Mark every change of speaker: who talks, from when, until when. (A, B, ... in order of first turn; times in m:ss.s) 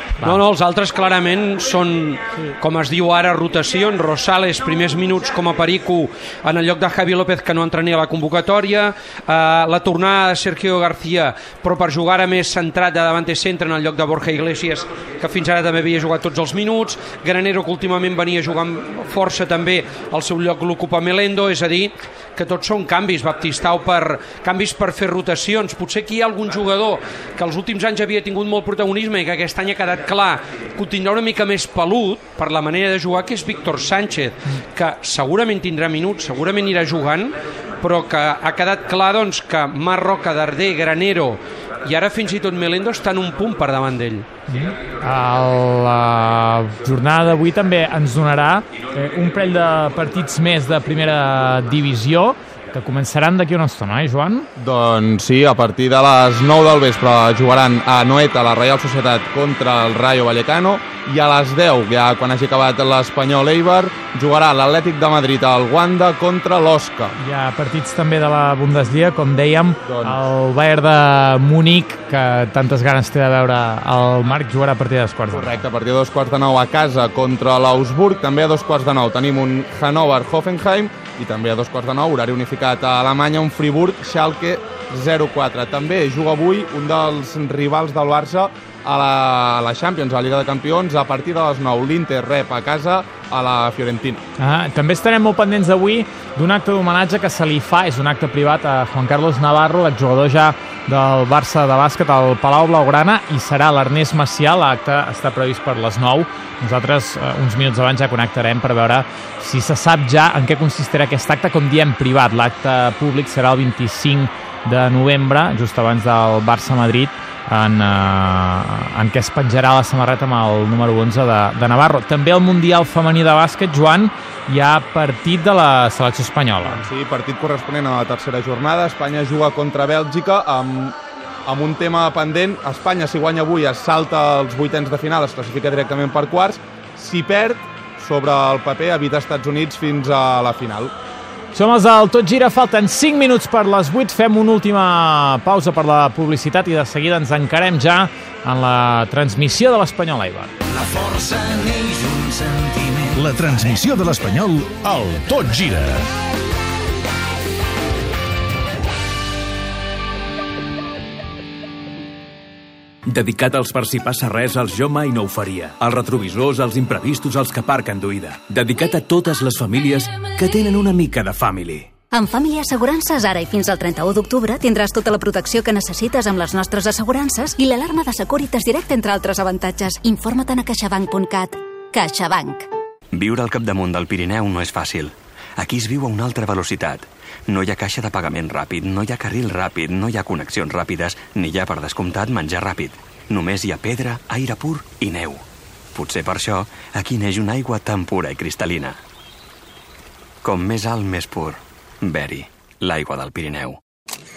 0:00.2-0:44.3 A
0:44.5-0:54.5 B
0:54.6-1:07.2 C
1:07.2-1:15.6 B
1:09.9-1:10.2 C
1:15.3-1:34.2 C
1:34.4-2:06.8 B
2:06.6-2:20.9 C
2:21.5-2:30.5 B
2:30.8-2:33.0 D
2:33.1-2:36.1 E
2:43.1-2:51.9 F
2:52.1-3:02.7 G
3:03.1-3:15.4 H
3:16.0-3:19.0 H
3:20.4-3:23.8 H